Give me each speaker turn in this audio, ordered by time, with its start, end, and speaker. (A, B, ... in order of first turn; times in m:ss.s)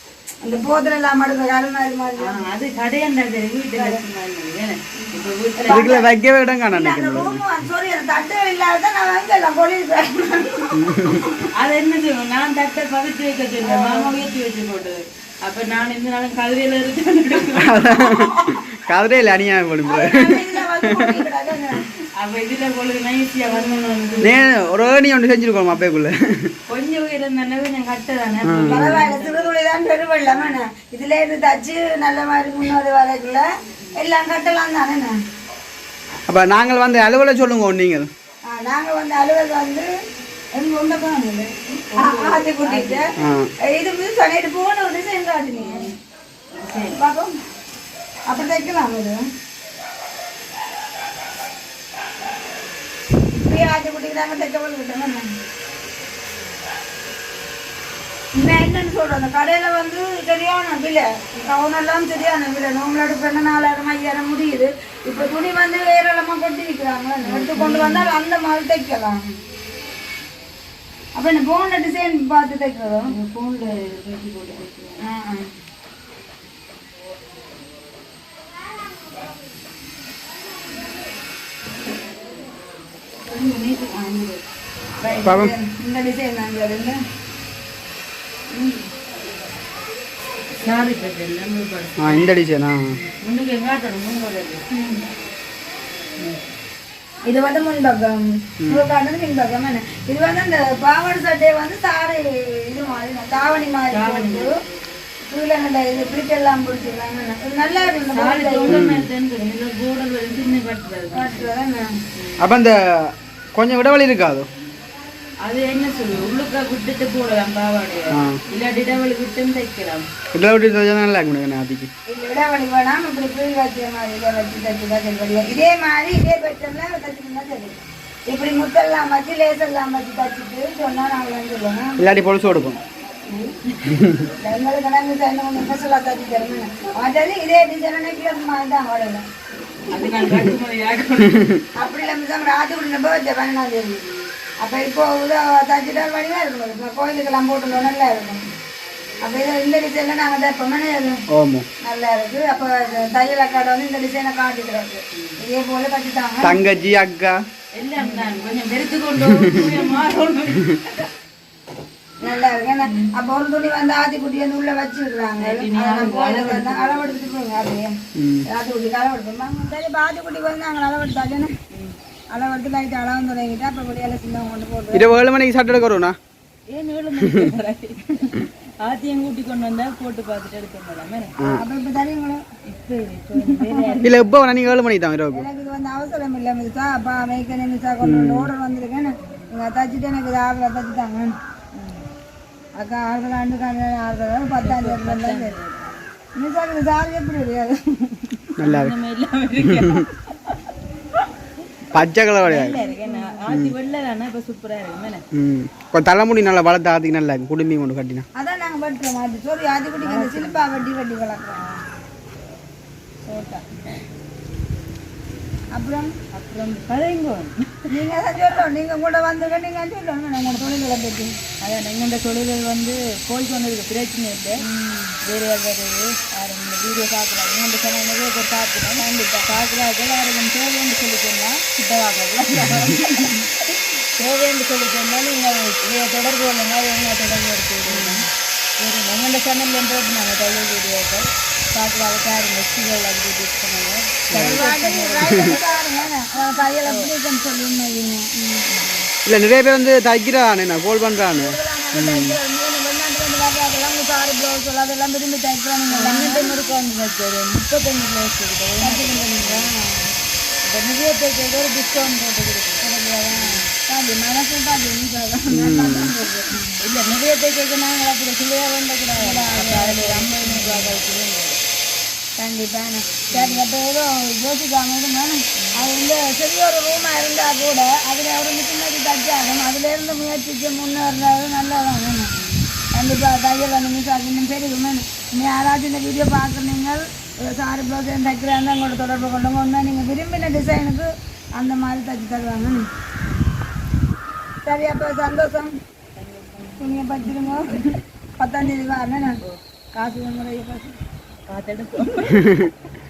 0:00.4-0:02.4 A
0:02.2-0:06.0 B
0:03.8-0:04.0 A
0:05.0-0:06.0 A
0:05.7-0:07.4 C
0:06.7-0:11.5 A
0:10.7-0:11.3 C
0:11.5-0:18.1 B
0:13.6-0:14.3 A
0:17.5-0:21.2 C
0:19.8-0:21.8 A
0:22.2-0:24.7 B
0:23.5-0:24.3 A
0:24.2-0:26.5 C
0:26.7-0:29.5 B
0:28.4-0:29.0 C
0:28.6-0:35.2 A
0:30.3-0:30.6 B
0:36.3-0:38.1 C
0:38.5-0:39.9 A
0:40.5-0:43.1 A
0:41.9-0:43.1 B
0:43.2-0:43.5 C
0:43.6-0:45.9 A
0:45.6-0:45.9 B
0:46.5-0:47.0 B
0:46.9-0:47.4 A
0:48.3-0:49.2 A
0:53.4-0:55.2 A
0:58.3-1:09.3 A
1:07.2-1:08.2 B
1:11.1-1:13.1 A
1:13.1-1:15.0 B
1:15.0-1:15.4 A
1:23.3-1:24.4 B
1:25.0-1:25.3 B
1:25.0-1:27.0 A
1:25.2-1:25.5 C
1:30.5-1:32.3 B
1:32.0-1:33.0 C
1:33.0-1:34.6 B
1:34.7-1:35.0 A
1:37.2-1:44.6 A
1:43.9-1:45.0 B
1:45.2-1:48.8 A
1:48.1-1:51.5 B
1:48.7-1:49.1 C
1:51.1-1:51.9 A
1:52.1-1:52.5 B
1:52.4-1:54.5 C
1:55.4-2:00.0 B
1:58.1-1:58.4 C
2:00.3-2:01.9 C
2:02.1-2:07.8 A
2:08.3-2:12.0 A
2:12.0-2:12.8 C
2:13.9-2:14.2 C
2:14.4-2:19.2 A
2:19.9-2:21.7 B
2:21.7-2:24.1 A
2:24.6-2:28.4 A
2:29.2-2:31.2 A
2:31.3-2:31.6 C
2:31.8-2:36.6 A
2:35.1-2:35.4 B
2:36.4-2:37.4 C
2:37.8-2:41.1 B
2:39.3-2:39.7 C
2:42.2-2:47.9 A
2:42.8-2:43.1 B
2:45.4-2:47.4 B
2:48.1-2:48.4 C
2:48.4-2:51.5 A
2:52.3-2:55.2 A
2:54.9-2:56.2 C
2:56.7-3:01.4 B
2:57.2-2:57.5 C
3:01.4-3:02.4 A
3:02.6-3:04.2 B
3:03.4-3:04.0 A
3:04.0-3:05.4 C
3:05.3-3:11.4 A
3:08.0-3:08.5 C
3:12.8-3:15.6 A
3:14.6-3:16.1 B
3:16.4-3:18.5 A
3:18.6-3:18.9 C
3:18.6-3:21.3 B
3:19.6-3:20.0 C
3:21.9-3:22.8 C
3:22.4-3:25.2 B
3:22.7-3:23.4 A
3:23.5-3:23.7 C
3:25.3-3:28.2 C
3:28.4-3:31.7 A
3:30.0-3:30.8 B
3:33.2-3:33.6 A
3:35.7-3:36.1 A
3:36.3-3:37.9 B
3:37.9-3:41.3 A
3:41.6-3:44.6 B
3:44.6-3:45.1 A
3:45.2-3:58.3 B
3:57.9-3:58.2 A
3:58.8-4:05.6 B
4:04.3-4:04.6 C
4:04.3-4:08.8 A
4:05.2-4:05.6 C
4:06.8-4:07.1 B
4:08.8-4:09.1 B
4:09.2-4:12.4 C
4:11.3-4:16.7 A
4:15.9-4:19.7 B
4:18.8-4:20.1 A
4:20.6-4:23.7 B
4:22.8-4:26.8 A
4:25.5-4:26.1 C
4:26.8-4:31.6 B
4:29.1-4:31.0 A
4:32.4-4:42.3 A
4:33.2-4:33.6 B
4:42.3-4:42.6 B
4:42.9-4:52.9 A
4:54.6-4:55.8 A
4:56.2-4:57.9 B
4:56.8-4:59.4 A
4:59.9-5:00.9 A
5:01.5-5:02.7 B
5:02.4-5:02.7 C